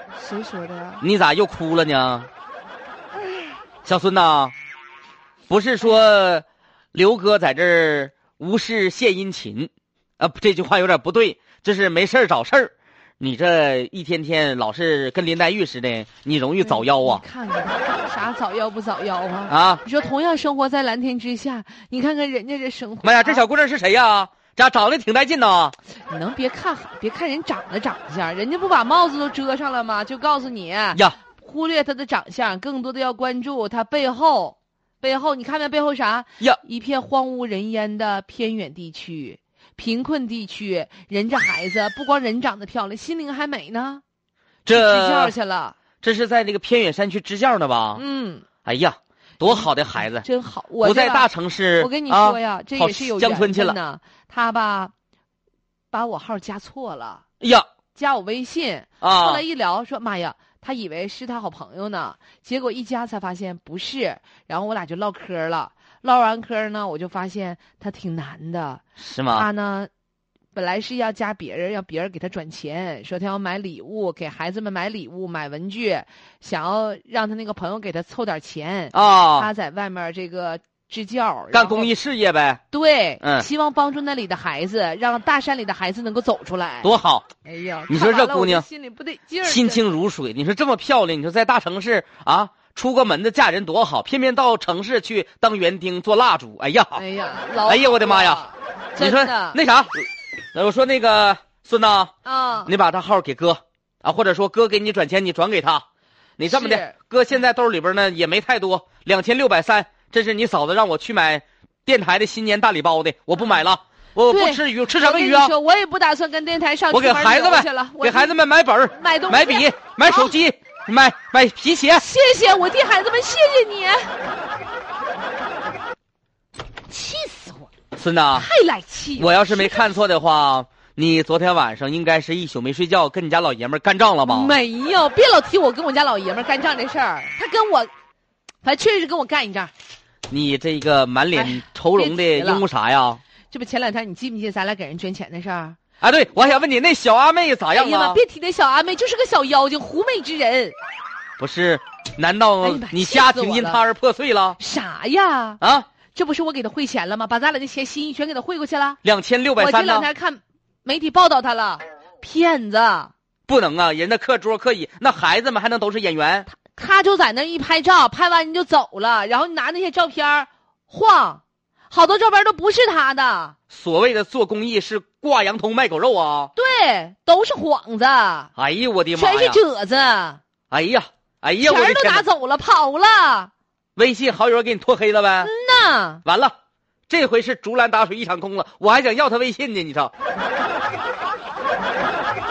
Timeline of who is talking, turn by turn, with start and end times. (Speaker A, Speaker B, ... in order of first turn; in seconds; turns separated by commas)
Speaker A: 0.2-1.0, Speaker B: 1.0-2.3, Speaker B: 3.9-4.5, Speaker B: 5.5-17.2, Speaker A: 16.6-23.4, Speaker B: 19.5-19.8, Speaker B: 23.0-25.8, Speaker A: 26.1-44.0, Speaker B: 44.7-45.4, Speaker A: 44.7-45.8, Speaker B: 46.0-48.0, Speaker A: 48.0-48.5, Speaker B: 48.6-50.3, Speaker A: 49.4-54.9, Speaker B: 50.8-53.8, Speaker A: 55.9-57.2, Speaker B: 57.4-57.7, Speaker A: 58.0-69.9, Speaker B: 59.0-59.4, Speaker B: 69.0-69.5, Speaker A: 70.5-81.9, Speaker B: 78.9-79.5, Speaker B: 81.5-82.6, Speaker A: 82.7-86.9, Speaker B: 83.2-83.5, Speaker B: 86.8-87.3, Speaker A: 87.4-89.9, Speaker B: 87.9-88.7, Speaker B: 89.4-97.0, Speaker A: 97.0-99.6, Speaker B: 97.6-98.4, Speaker B: 99.0-102.1, Speaker A: 102.2-102.7, Speaker B: 102.7-105.8, Speaker B: 106.4-115.5, Speaker A: 106.5-106.9, Speaker A: 114.3-118.3, Speaker B: 116.9-122.0, Speaker A: 118.9-120.3, Speaker A: 122.0-124.1, Speaker A: 126.9-127.7, Speaker B: 128.0-128.5, Speaker A: 128.3-129.9, Speaker B: 129.2-134.5, Speaker A: 134.2-137.9, Speaker A: 138.6-139.7, Speaker B: 140.3-143.2, Speaker A: 141.4-142.7, Speaker A: 143.5-145.8, Speaker B: 146.0-148.2, Speaker A: 147.7-150.8, Speaker B: 151.4-154.6, Speaker A: 152.6-153.8, Speaker A: 154.6-155.6, Speaker B: 155.6-155.9, Speaker A: 156.1-159.0, Speaker B: 159.0-160.1, Speaker A: 159.6-163.1, Speaker B: 163.5-166.5, Speaker A: 166.5-173.6, Speaker B: 173.7-176.5, Speaker A: 176.6-178.5, Speaker B: 178.6-179.6, Speaker A: 179.2-180.4, Speaker B: 180.7-182.3, Speaker A: 181.6-183.5, Speaker B: 184.0-185.5, Speaker A: 185.4-186.2, Speaker B: 186.2-186.5, Speaker B: 187.1-190.1